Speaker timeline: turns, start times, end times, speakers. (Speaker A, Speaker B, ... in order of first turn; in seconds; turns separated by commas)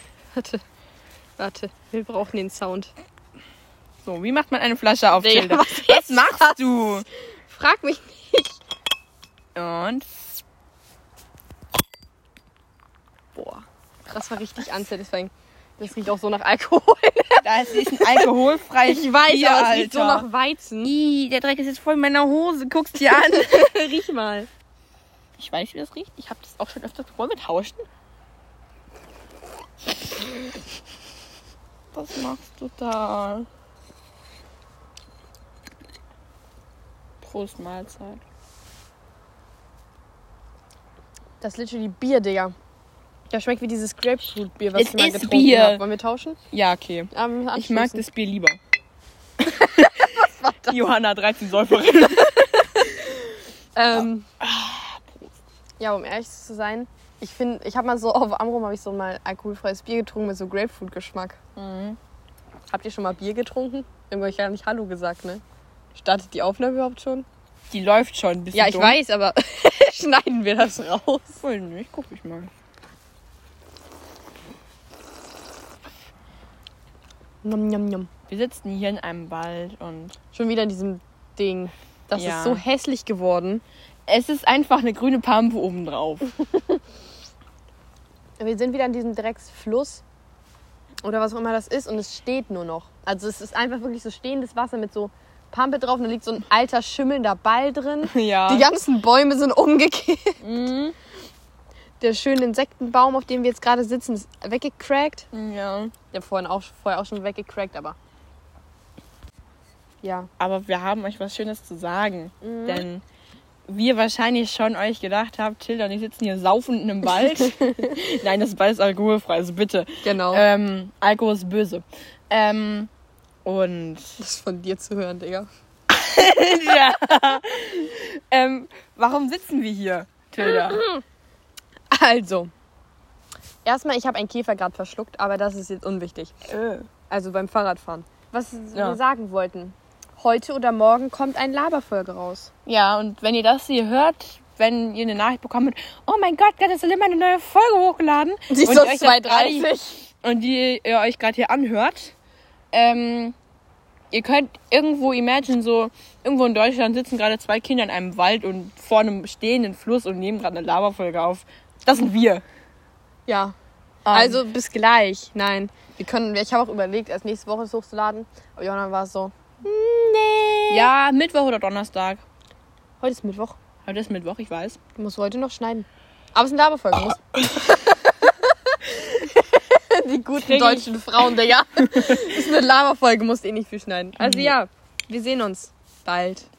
Speaker A: 0.3-0.6, Speaker A: 1.4-2.9, Speaker B: 4.0-7.1, Speaker A: 5.2-6.6, Speaker A: 7.5-8.6, Speaker B: 9.6-10.1, Speaker A: 13.4-18.3, Speaker B: 17.4-20.3, Speaker A: 18.8-20.9, Speaker B: 20.8-23.8, Speaker A: 23.1-24.5, Speaker B: 25.4-27.8, Speaker B: 31.9-33.5, Speaker B: 37.2-38.2, Speaker A: 41.4-42.5, Speaker A: 43.3-46.4, Speaker B: 44.8-45.8, Speaker B: 46.5-48.6, Speaker A: 47.1-48.0, Speaker A: 49.4-50.8, Speaker B: 49.6-50.1, Speaker B: 50.7-53.1, Speaker A: 53.8-54.3, Speaker B: 53.9-55.3, Speaker A: 55.8-61.4, Speaker B: 61.6-62.0, Speaker A: 62.7-65.4, Speaker A: 66.0-67.3, Speaker B: 67.7-69.0, Speaker A: 68.5-71.4, Speaker B: 71.4-72.5, Speaker A: 77.4-78.1, Speaker B: 78.3-80.2, Speaker A: 80.3-83.6, Speaker B: 82.1-82.6, Speaker B: 84.1-86.3, Speaker A: 88.4-90.0, Speaker A: 91.0-100.4, Speaker B: 98.0-98.7, Speaker B: 100.4-101.0, Speaker A: 102.0-105.3, Speaker B: 105.3-105.9, Speaker A: 106.1-108.0, Speaker A: 110.0-110.3, Speaker B: 110.4-113.0, Speaker A: 112.4-112.8, Speaker B: 113.7-122.9, Speaker A: 120.0-120.4, Speaker B: 123.4-124.2, Speaker A: 124.2-125.5, Speaker B: 125.9-130.9, Speaker A: 130.6-131.0, Speaker A: 131.9-132.5, Speaker A: 133.6-136.4, Speaker B: 136.5-136.9, Speaker A: 137.1-142.5, Speaker B: 142.7-149.7, Speaker A: 148.5-150.0, Speaker B: 150.2-152.1, Speaker B: 152.7-153.3, Speaker B: 154.1-162.4, Speaker A: 163.3-163.6, Speaker B: 164.1-164.4, Speaker A: 164.1-170.9, Speaker B: 170.7-172.2, Speaker A: 173.0-173.6, Speaker B: 173.8-174.8, Speaker A: 175.0-186.5, Speaker B: 180.4-180.9, Speaker B: 184.2-184.6